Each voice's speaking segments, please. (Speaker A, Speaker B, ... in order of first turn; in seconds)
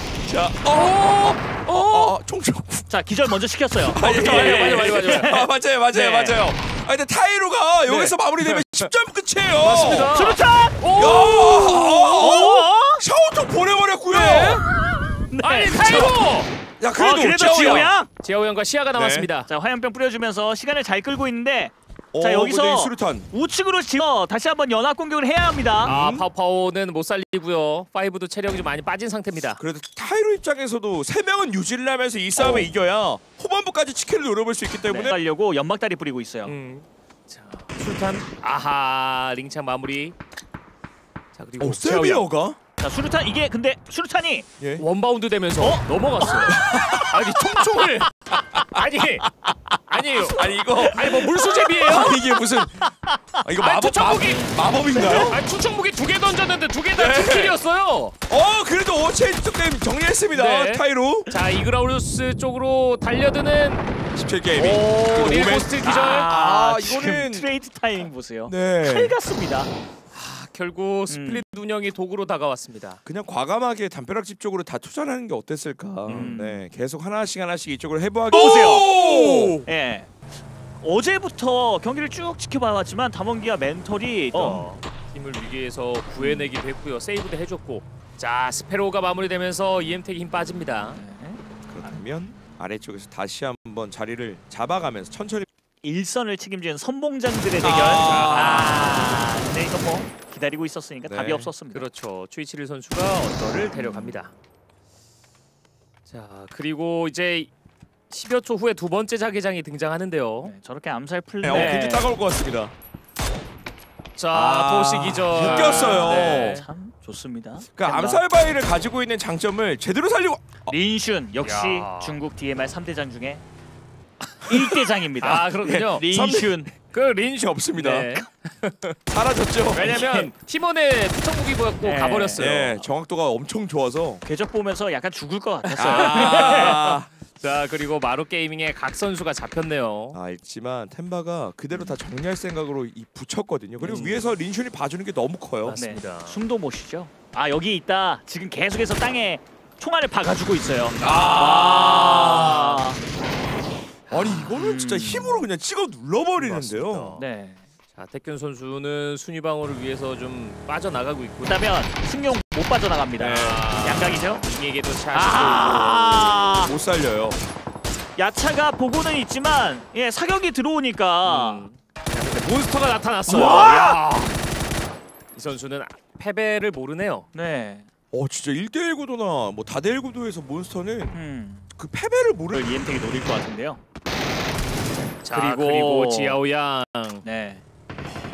Speaker A: 0.2-2.9, 3.8-10.2, 10.9-14.7, 15.8-16.1, 16.8-17.9, 18.9-19.3, 22.1-23.3, 25.9-26.3, 29.6-35.2, 41.6-42.6, 44.6-44.9, 46.5-47.1, 50.3-55.4, 56.9-57.6, 58.3-61.3, 64.1-67.5, 68.5-69.1, 73.1-79.6, 91.7-95.5, 97.6-98.8, 101.0-101.5, 111.4-112.7, 114.3-116.6, 117.8-120.8, 125.6-126.6, 127.4-128.2, 129.1-129.9, 132.4-134.2, 135.8-137.1, 140.1-145.8, 151.0-152.7, 154.1-157.1, 163.2-163.6, 165.3-167.4, 178.1-181.2, 181.8-182.8
Speaker B: 0.7-2.2, 4.0-5.4, 7.9-8.9, 9.6-12.4, 14.1-14.6, 15.4-16.5, 18.2-19.5, 25.8-29.6, 32.4-32.7, 36.5-40.1, 41.4-42.3, 44.8-49.3, 49.9-52.2, 53.6-58.1, 60.3-63.9, 64.5-66.3, 70.1-73.0, 76.1-76.4, 78.4-79.6, 84.3-91.0, 97.8-99.3, 101.7-104.3, 106.1-107.5, 108.1-110.5, 111.5-111.8, 114.2-116.7, 121.4-122.2, 125.2-126.1, 126.9-129.0, 129.7-132.8, 135.7-140.2, 143.8-144.3, 145.6-146.4, 152.2-152.8, 154.1-154.5, 156.4-157.3, 157.9-161.6, 163.2-166.2, 171.2-174.4, 175.3-177.3, 185.2-187.2
Speaker C: 2.9-6.4, 10.1-10.8, 12.1-13.0, 14.1-14.6, 15.3-16.2, 16.9-18.1, 19.5-25.9, 34.9-36.5, 42.8-44.5, 45.6-47.1, 50.8-52.1, 54.9-55.3, 65.8-69.7, 71.1-71.4, 76.1-76.7, 78.3-78.9, 79.7-80.3, 80.8-84.7, 86.2-86.5, 91.0-92.0, 95.8-101.9, 103.7-104.2, 110.4-112.2, 115.4-118.2, 120.7-123.4, 124.4-126.7, 129.8-130.3, 131.8-132.5, 134.2-136.8, 141.7-142.0, 145.8-153.0, 154.5-155.5, 157.2-157.6, 161.4-164.4, 165.1-166.7, 168.2-171.7, 173.3-174.0, 177.3-177.9, 181.1-181.7, 182.5-183.8, 185.3-186.4, 187.2-187.6